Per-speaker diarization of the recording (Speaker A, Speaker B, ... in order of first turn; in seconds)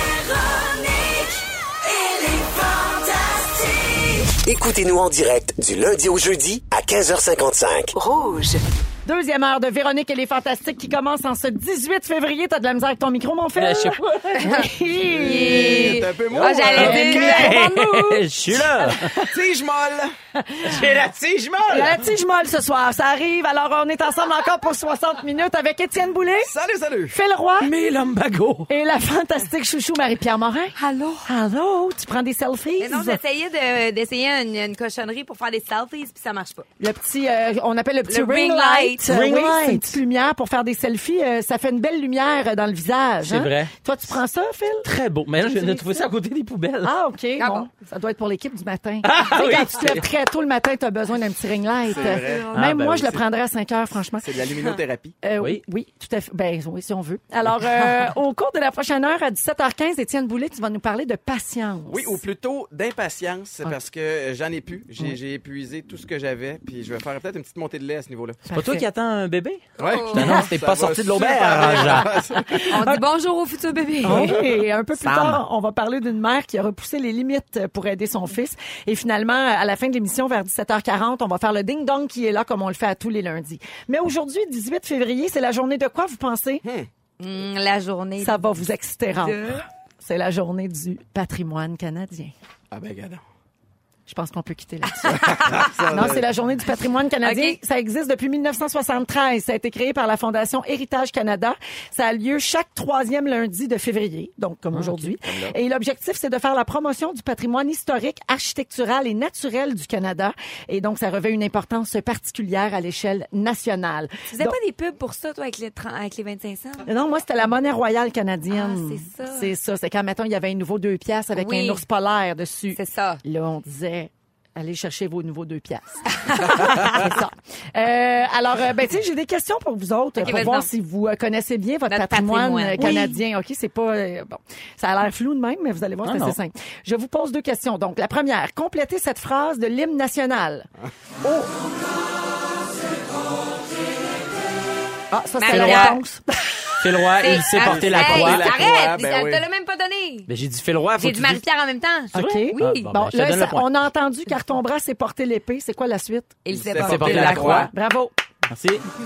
Speaker A: 0.4-1.2, 2.0-8.6
Speaker B: 9.1-16.0, 16.7-19.2, 20.3-20.9, 21.7-26.5, 27.1-27.7, 28.7-33.2, 36.8-44.9, 46.8-54.4, 55.2-62.2, 68.5-68.8, 72.2-73.0, 74.0-86.6, 88.2-92.3, 94.1-114.6, 116.8-140.7, 141.2-141.5, 145.1-146.8, 152.1-156.4, 157.3-158.1
Speaker C: 13.5-14.6, 16.6-19.2, 20.6-22.0, 27.6-28.7, 39.0-40.0, 43.2-43.7, 44.8-46.9, 49.0-50.0, 52.5-53.1, 68.5-72.2, 75.0-75.4, 104.7-105.1, 132.8-133.1, 136.0-136.3, 145.5-145.9, 146.8-148.6, 150.3-151.4, 152.1-153.7, 156.8-157.7, 158.5-158.8
Speaker D: 14.4-18.1, 30.8-31.3, 32.8-36.6, 38.1-39.0, 45.5-46.0, 47.4-47.7, 51.9-52.5, 69.8-70.4, 72.6-74.3, 87.2-88.4, 89.2-89.7, 95.0-95.8, 97.2-97.6, 114.3-116.9, 118.5-119.5, 121.3-121.8, 122.7-123.2, 126.3-127.0, 130.2-130.7, 131.9-133.1, 145.4-146.0, 147.2-150.3, 151.0-152.9, 156.4-157.7
Speaker E: 15.1-17.6, 19.2-20.1, 26.4-27.2, 51.9-53.2, 54.2-55.2, 61.9-68.4, 69.8-72.8, 74.1-74.4, 86.6-86.9, 92.7-93.2, 95.1-96.2, 105.2-105.5, 147.6-149.5, 156.5-157.7